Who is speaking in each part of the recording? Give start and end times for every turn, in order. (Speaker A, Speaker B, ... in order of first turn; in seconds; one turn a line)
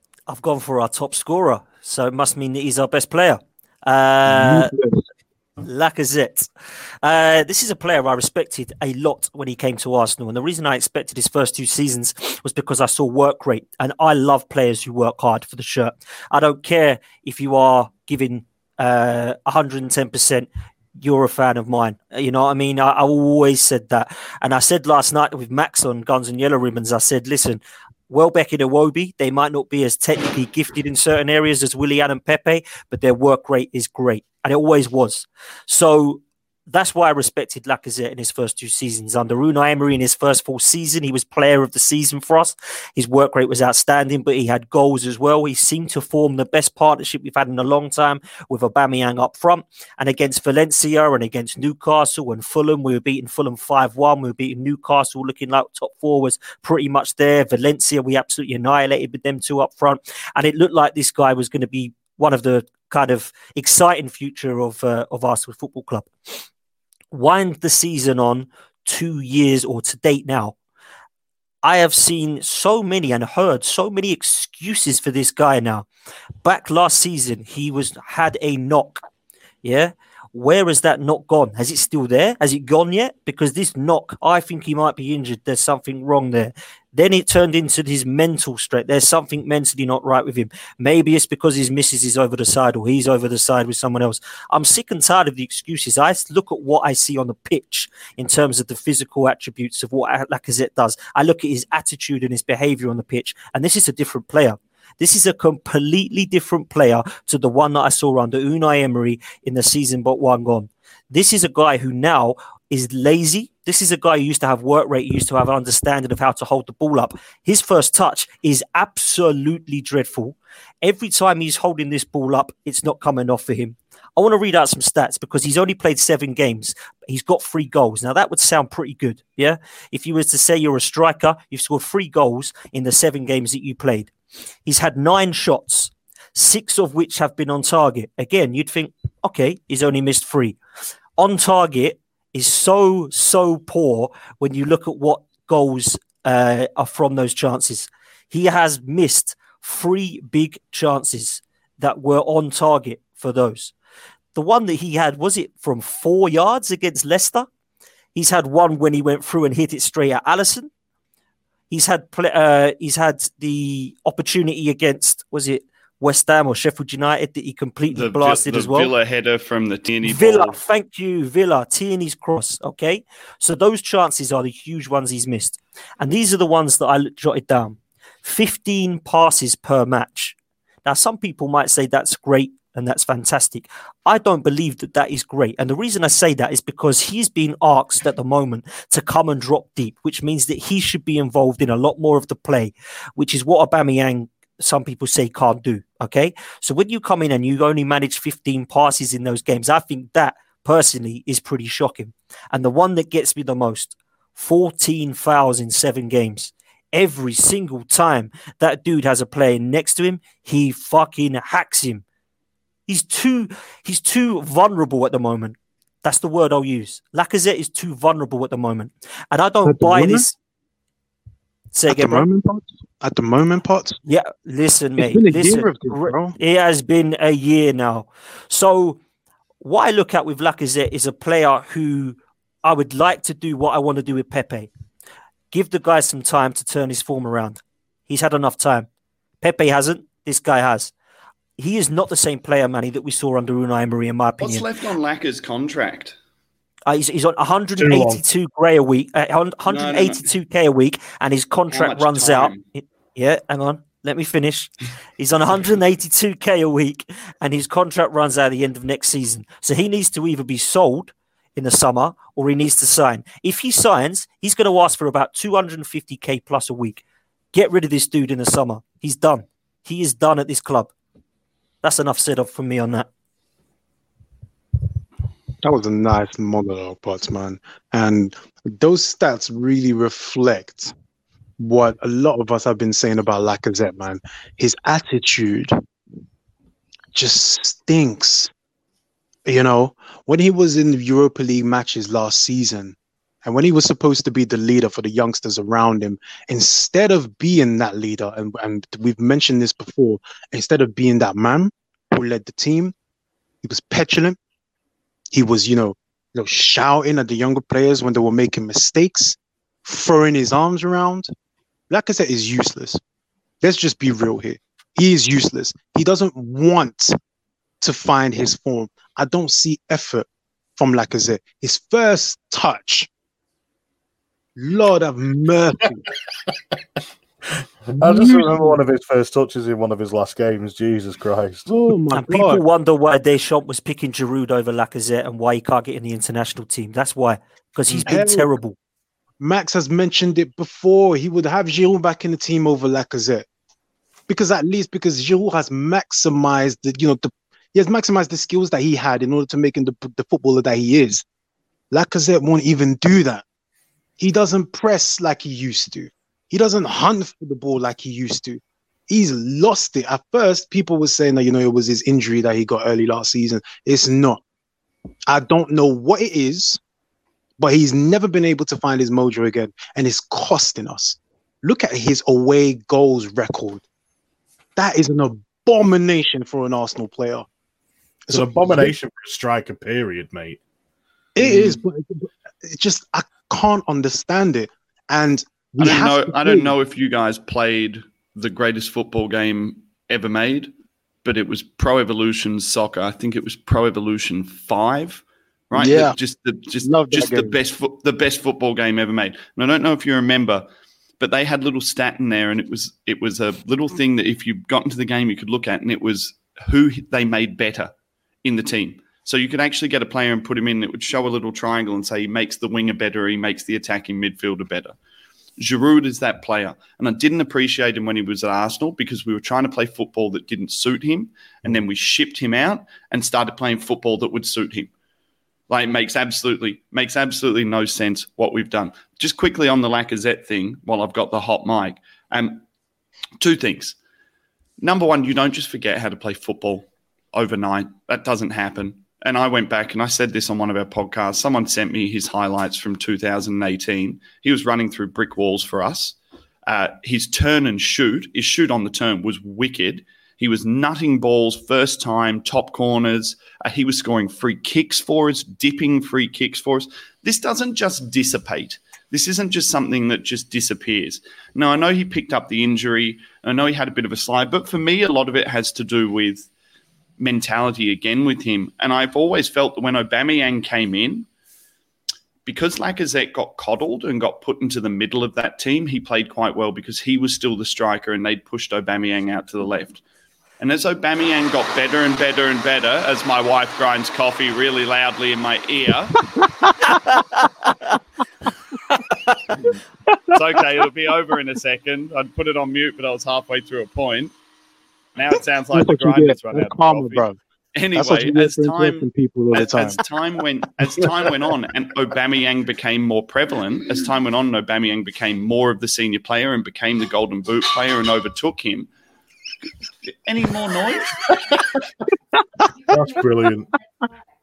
Speaker A: 0.3-4.7
Speaker B: 4.2-5.0
Speaker A: 5.6-6.5
Speaker A: 7.0-20.5
Speaker A: 21.0-66.1
Speaker A: 67.1-70.5
Speaker A: 71.6-75.9
Speaker A: 76.4-79.0
Speaker A: 79.6-134.1
Speaker A: 134.6-140.6
Speaker A: 141.2-153.7
Speaker A: 154.3-157.5
Speaker A: 158.1-160.7
Speaker A: 161.7-168.9
Speaker C: 167.9-170.6
Speaker A: 170.0-212.0
Speaker A: 212.9-220.3
Speaker B: 219.6-220.2
Speaker A: 221.7-222.3
Speaker B: 221.9-224.0
Speaker A: 224.1-229.0
Speaker B: 225.0-226.4
Speaker A: 229.6-234.7
Speaker A: 235.5-238.9
Speaker A: 239.4-240.9
Speaker A: 241.6-244.7
Speaker C: 244.4-246.2
Speaker A: 246.9-270.9
Speaker D: 247.8-248.2
Speaker C: 249.7-250.3
Speaker C: 251.7-252.6
Speaker A: 271.8-273.1
Speaker B: 275.6-280.9
Speaker B: 281.6-285.8
Speaker B: 287.1-288.5
Speaker B: 289.4-302.9
Speaker B: 303.6-304.4
Speaker B: 305.3-311.3
Speaker B: 311.9-313.0
Speaker B: 313.6-317.2
Speaker B: 317.8-323.1
Speaker B: 324.6-326.1
Speaker D: 327.9-331.7
Speaker B: 327.9-328.8
Speaker B: 331.7-332.6
Speaker A: 332.1-338.8
Speaker B: 338.1-338.5
Speaker B: 339.4-343.4
Speaker B: 344.3-351.2
Speaker B: 351.9-353.4
Speaker B: 354.2-364.4
Speaker B: 365.3-366.8
Speaker B: 367.6-373.8
Speaker B: 374.8-377.4
Speaker B: 378.3-378.9
Speaker D: 378.3-380.6
Speaker B: 381.4-386.7
Speaker D: 381.4-381.8
Speaker C: 385.8-390.7
Speaker C: 391.2-400.7
Speaker B: 395.7-396.2
Speaker B: 396.8-397.6
Speaker C: 401.2-407.9
Speaker C: 408.4-414.9
Speaker C: 415.6-424.9
Speaker C: 425.7-432.6
Speaker C: 433.4-433.9
Speaker C: 434.8-446.1
Speaker C: 446.7-466.5
Speaker C: 467.2-471.3
Speaker C: 472.4-480.0
Speaker C: 480.6-486.2
Speaker C: 490.3-494.3
Speaker C: 495.1-508.9
Speaker B: 495.7-497.4
Speaker B: 497.9-500.0
Speaker C: 510.2-511.3
Speaker D: 512.9-513.7